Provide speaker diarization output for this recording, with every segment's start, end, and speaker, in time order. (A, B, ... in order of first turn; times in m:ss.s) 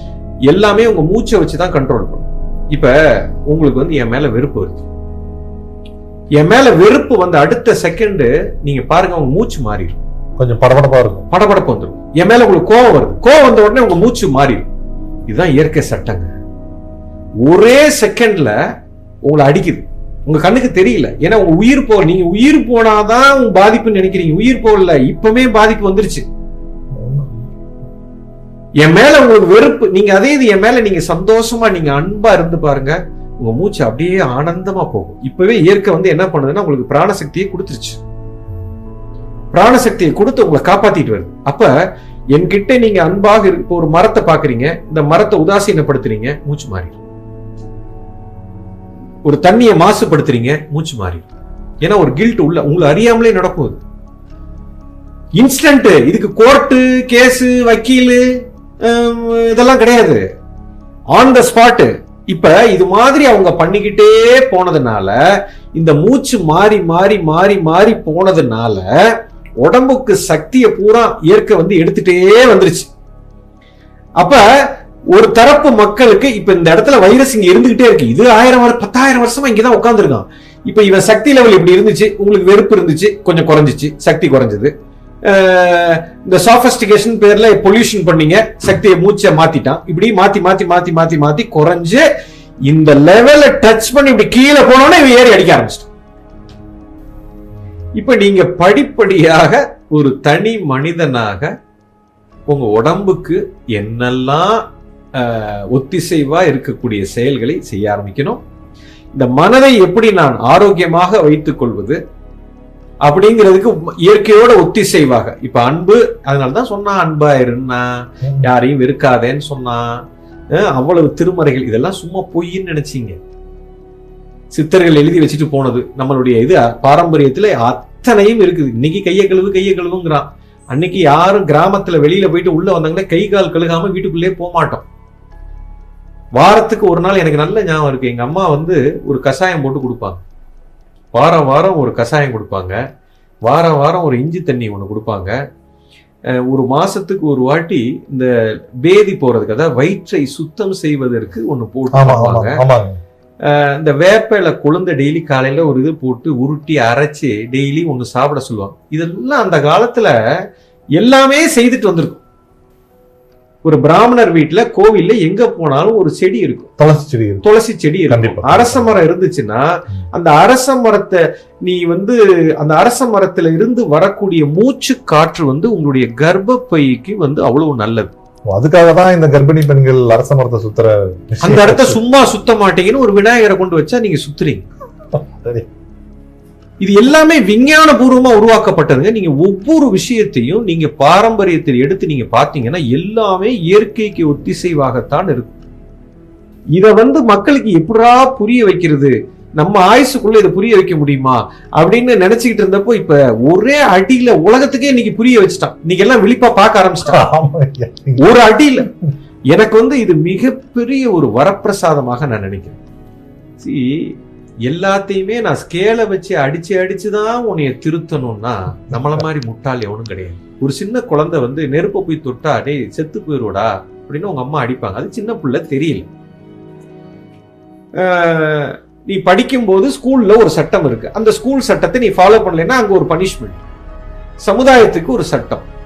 0:00.5-0:04.9 A
0:06.4-0:10.0 A
0:10.4-0:11.3 B
0:11.3-0:14.7 A
0:15.3-0:16.3 A
0:17.4-0:18.6 A
0:19.2-0:26.2 A
0:26.9-0:27.5 B
0:28.8-0:38.0 A
0:39.5-0:41.7 A
0:42.3-0:47.0 A
0:49.2-0:51.3 A
0:51.8-0:53.8 A
0:55.4-1:00.2 A
1:01.1-1:05.2 A
1:05.8-1:08.9 A
1:09.6-1:12.9 A
1:14.2-1:14.5 A
1:15.1-1:24.7 A
1:25.2-1:32.1 A
1:32.7-1:35.9 A
1:38.0-1:41.5 A
1:42.5-1:44.6 A
1:45.2-1:48.4 A
1:49.1-1:52.0 A
1:53.0-2:00.0 A
1:58.2-1:58.5 B
2:00.5-2:03.2 A
2:04.5-2:14.8 A
2:16.4-2:20.2 A
2:21.1-2:22.8 A
2:23.5-2:25.4 A
2:26.5-2:28.3 A
2:28.8-2:32.6 A
2:31.9-2:33.0 B
2:33.4-2:40.1 A
2:41.0-2:42.2 A
2:43.6-2:46.7 A
2:46.8-2:47.5 B
2:47.4-2:58.1 A
2:48.1-2:49.0 B
2:58.5-3:02.0 B
3:01.4-3:04.6 A
3:05.1-3:05.7 B
3:06.8-3:15.6 A
3:16.7-3:27.2 A
3:27.1-3:28.4 B
3:28.2-3:28.9 A
3:29.5-3:32.8 A
3:33.6-3:46.1 A
3:48.0-3:53.6 A
3:54.4-3:55.7 A